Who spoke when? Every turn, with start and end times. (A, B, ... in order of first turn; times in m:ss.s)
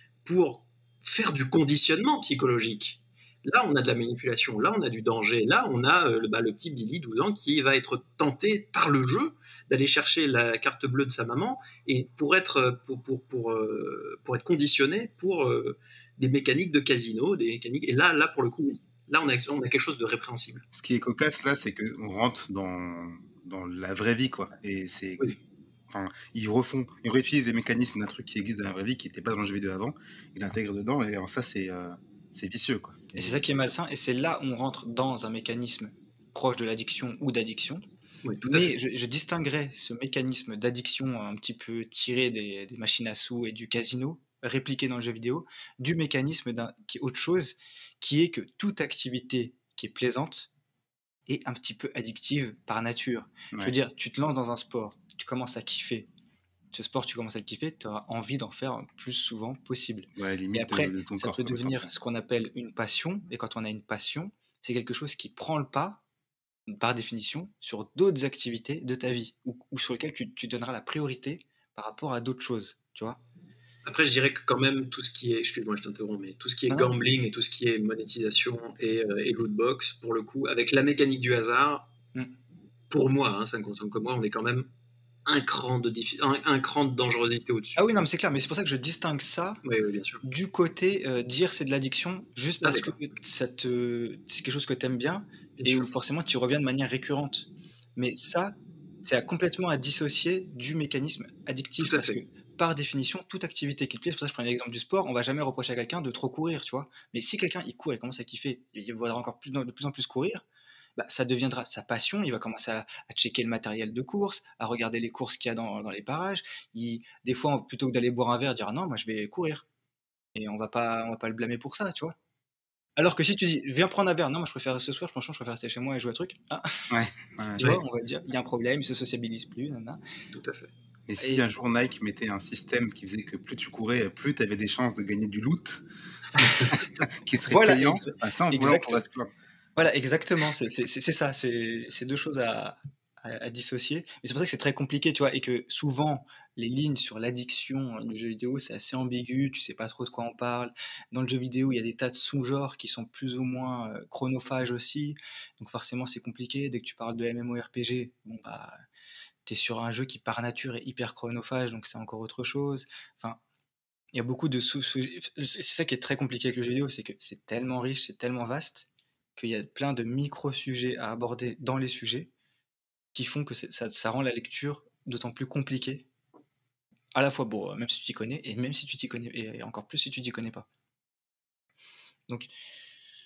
0:00.2-0:20.6 A
0:20.7-0:25.3 B
0:25.9-0:33.7 B
0:33.2-0:37.8 C
0:38.2-0:38.8 A
0:38.4-0:50.5 C
0:51.3-0:56.1 C
0:56.7-1:06.0 C
1:00.2-1:01.9 B
1:06.7-1:13.2 C
1:13.8-1:21.9 A
1:22.9-1:24.7 A
1:25.3-1:28.0 A
1:27.8-1:29.6 C
1:29.6-1:30.2 A
1:30.2-1:50.4 C
1:32.6-1:33.0 A
1:35.6-1:35.9 A
1:41.8-1:42.2 A
1:51.0-1:59.6 C
2:00.4-2:02.2 C
2:03.0-2:07.0 C
2:06.9-2:07.8 B
2:07.6-2:10.0 C
2:10.3-2:10.7 A
2:11.1-2:15.8 B
2:11.2-2:11.5 C
2:16.4-2:19.3 B
2:17.5-2:19.0 C
2:19.8-2:38.8 C
2:39.5-2:43.4 C
2:44.1-2:52.3 C
2:53.1-2:56.0 C
2:57.1-3:00.7 C